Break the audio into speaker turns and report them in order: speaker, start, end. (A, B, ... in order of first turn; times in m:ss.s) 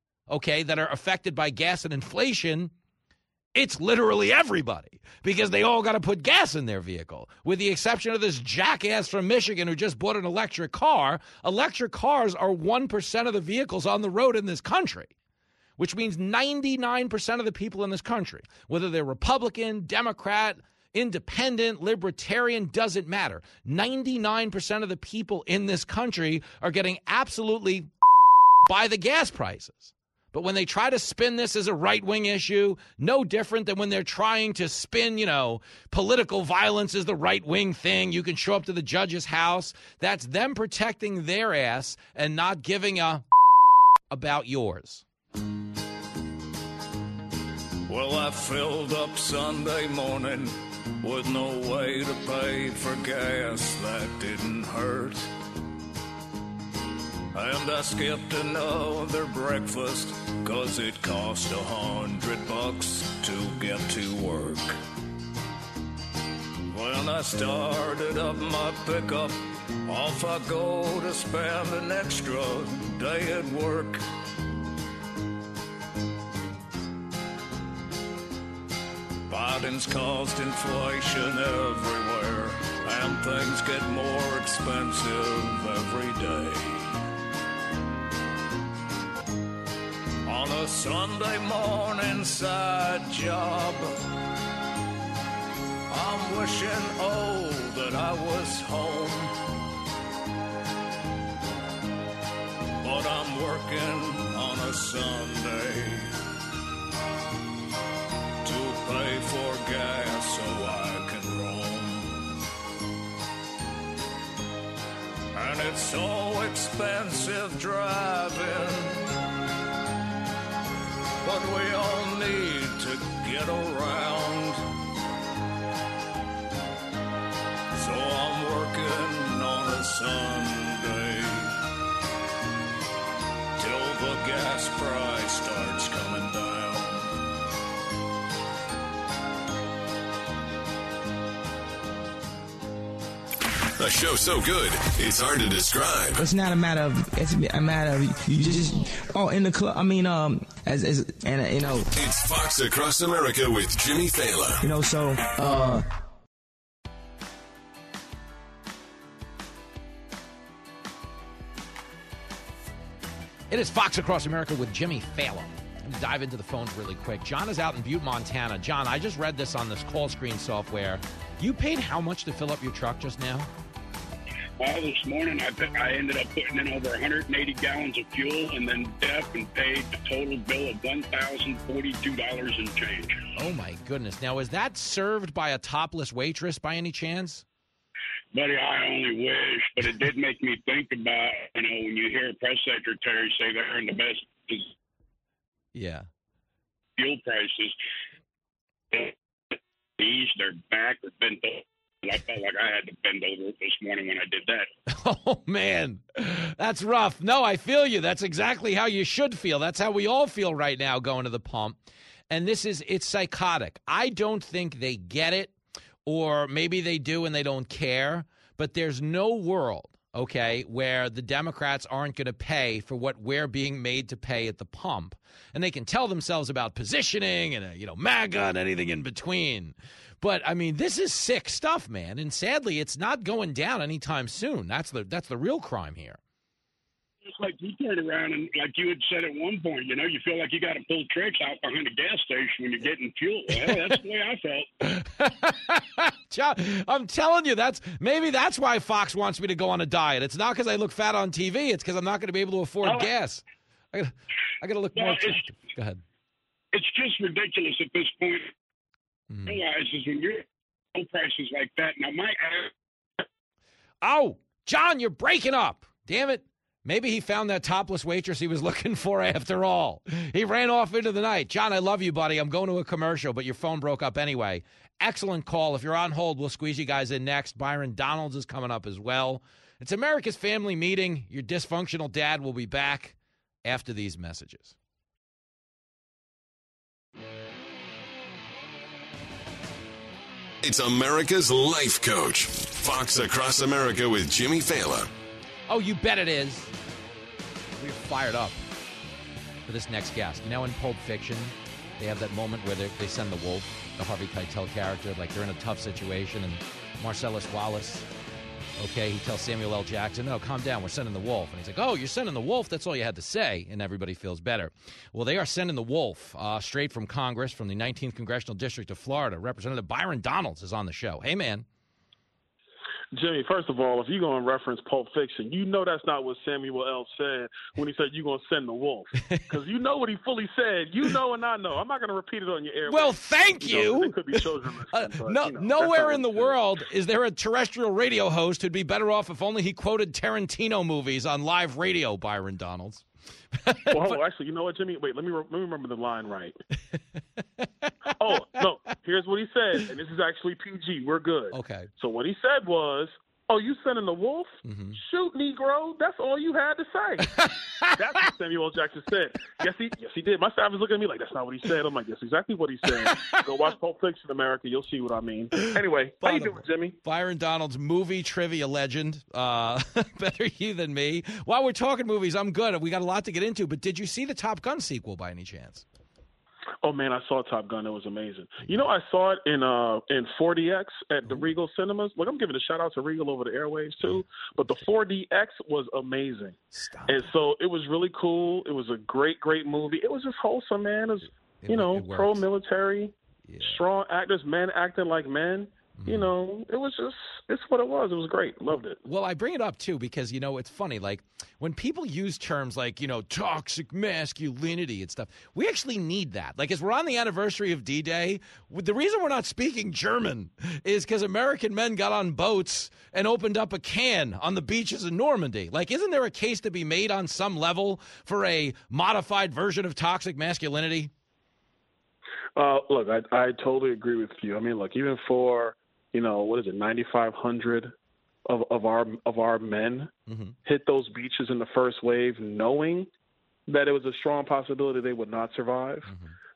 0:00.3-0:02.7 A
0:03.5-0:15.1 A
0:15.8-0:27.9 A
0:28.6-0:43.2 A
0:44.1-0:45.0 A
0:47.9-0:55.3 B
0:57.3-1:04.8 B
1:06.7-1:14.0 B
1:19.3-1:26.9 B
1:30.2-1:33.9 B
1:35.9-1:39.3 B
1:42.8-1:46.1 B
1:48.4-1:52.3 B
1:55.3-1:59.1 B
2:01.2-2:04.6 B
2:07.7-2:11.6 B
2:13.6-2:17.2 B
2:23.8-2:26.3 C
2:26.2-2:31.9 D
2:31.9-2:34.6 C
2:34.6-2:35.8 D
2:43.5-2:53.5 A
2:54.6-3:03.1 E
3:03.4-3:07.4 A
3:08.3-3:14.7 E
3:15.7-3:16.0 A
3:17.0-3:17.7 E
3:20.0-3:24.7 E
3:24.9-3:31.8 A
3:32.3-3:35.5 A
3:36.0-3:56.2 A
3:57.2-4:04.7 E
4:04.9-4:16.0 A
4:12.8-4:13.1 E
4:15.0-4:15.4 E
4:16.7-4:18.5 E
4:19.3-4:19.6 A
4:19.4-4:20.4 E
4:20.9-4:22.7 E
4:24.0-4:44.7 A
4:50.6-4:55.1 C
4:55.7-4:56.7 A
4:57.8-4:58.6 A
4:59.7-5:08.1 A
5:08.8-5:21.6 A
5:23.1-5:36.6 F
5:32.9-5:43.0 A
5:43.6-5:44.2 A
5:43.9-5:46.6 F
5:48.2-5:57.3 F
5:51.5-5:51.9 A
5:54.6-5:55.0 A
5:57.4-5:57.9 A
5:58.0-6:07.0 F
6:03.1-6:03.4 A
6:06.2-6:15.8 A
6:16.8-6:26.6 F
6:24.0-6:24.5 A
6:26.7-6:27.3 A
6:27.1-6:39.0 F
6:31.6-6:32.4 A
6:33.4-6:33.8 A
6:36.0-6:36.3 A
6:39.0-7:01.1 A
7:02.6-7:07.9 F
7:08.5-7:10.1 F
7:10.3-7:10.5 A
7:10.6-7:13.1 F
7:13.7-7:16.1 F
7:16.0-7:16.3 A